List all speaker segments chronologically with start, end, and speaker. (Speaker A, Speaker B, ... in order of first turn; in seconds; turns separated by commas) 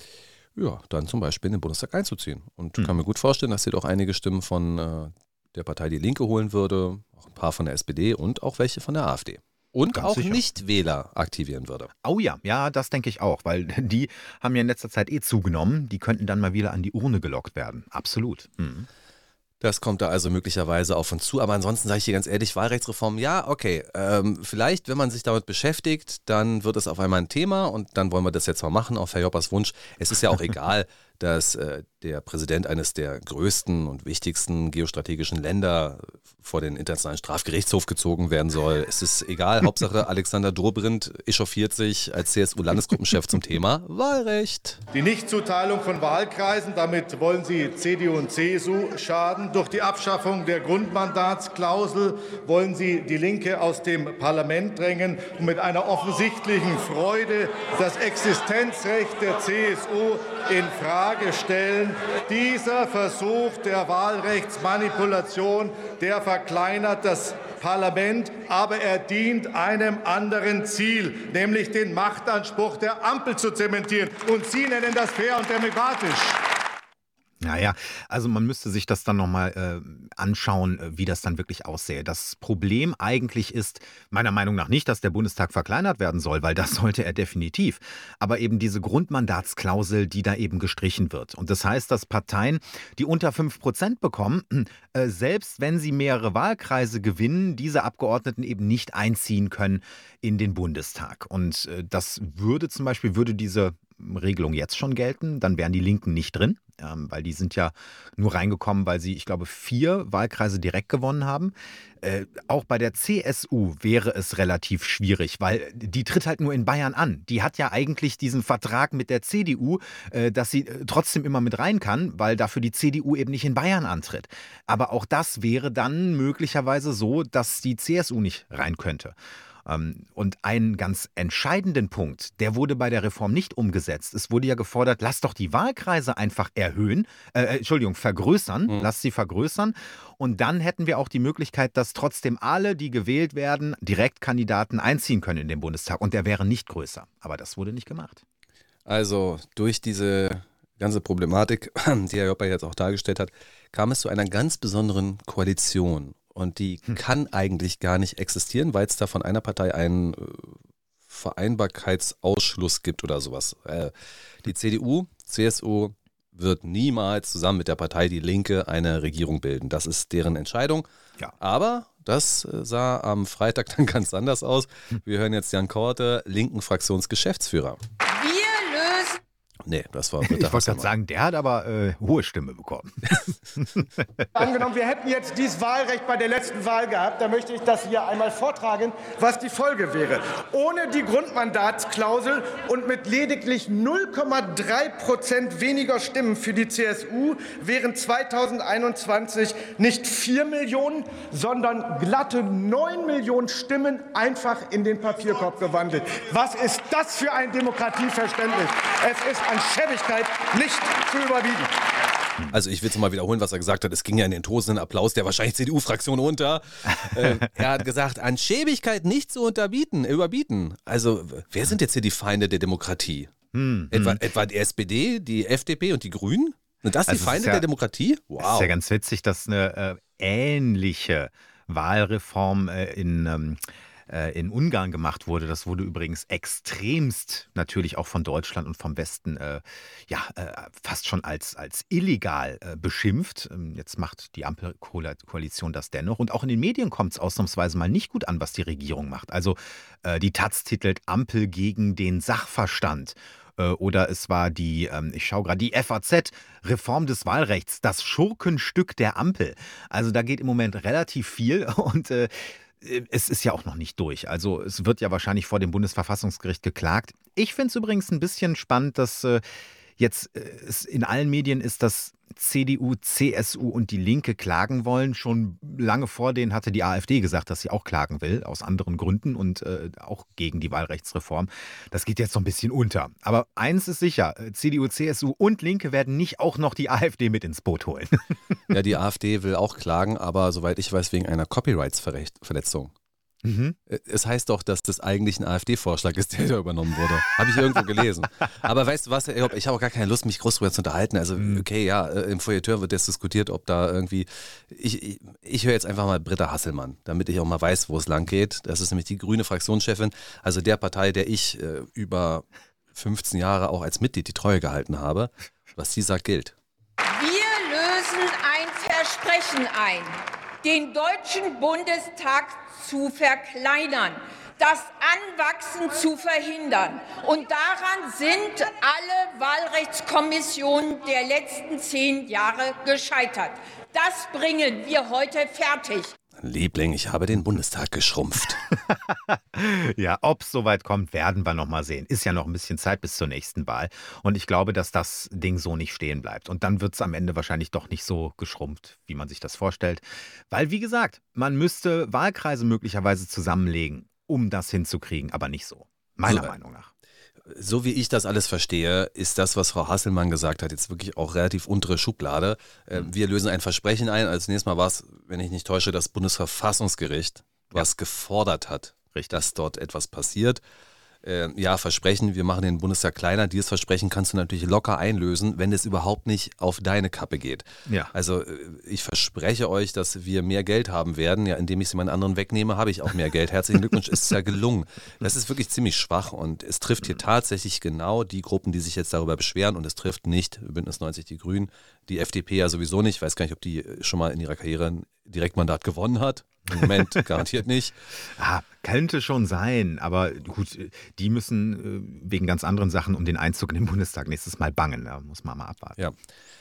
Speaker A: 0.6-11.9, Speaker B: 9.9-10.4, Speaker B: 12.0-18.9, Speaker A: 19.6-44.8, Speaker C: 44.9-76.4, Speaker B: 77.4-148.2, Speaker A: 148.9-160.5, Speaker A: 161.1-163.9, Speaker A: 164.4-170.9, Speaker A: 171.4-177.8, Speaker D: 178.1-179.2, Speaker A: 179.7-180.9, Speaker B: 180.2-183.9, Speaker E: 184.3-211.7, Speaker A: 212.5-223.3, Speaker B: 217.1-217.4, Speaker B: 223.5-224.2, Speaker A: 223.9-228.7, Speaker B: 227.1-227.7, Speaker B: 228.4-269.4, Speaker B: 270.0-288.3, Speaker A: 288.7-292.9, Speaker B: 293.4-293.8, Speaker A: 293.9-316.5, Speaker B: 301.4-301.6, Speaker D: 317.1-336.1, Speaker A: 336.4-338.6, Speaker B: 338.9-356.9, Speaker A: 356.2-356.5, Speaker A: 357.5-370.6, Speaker B: 369.1-369.4, Speaker A: 371.2-397.9, Speaker B: 396.7-397.2, Speaker B: 398.3-406.0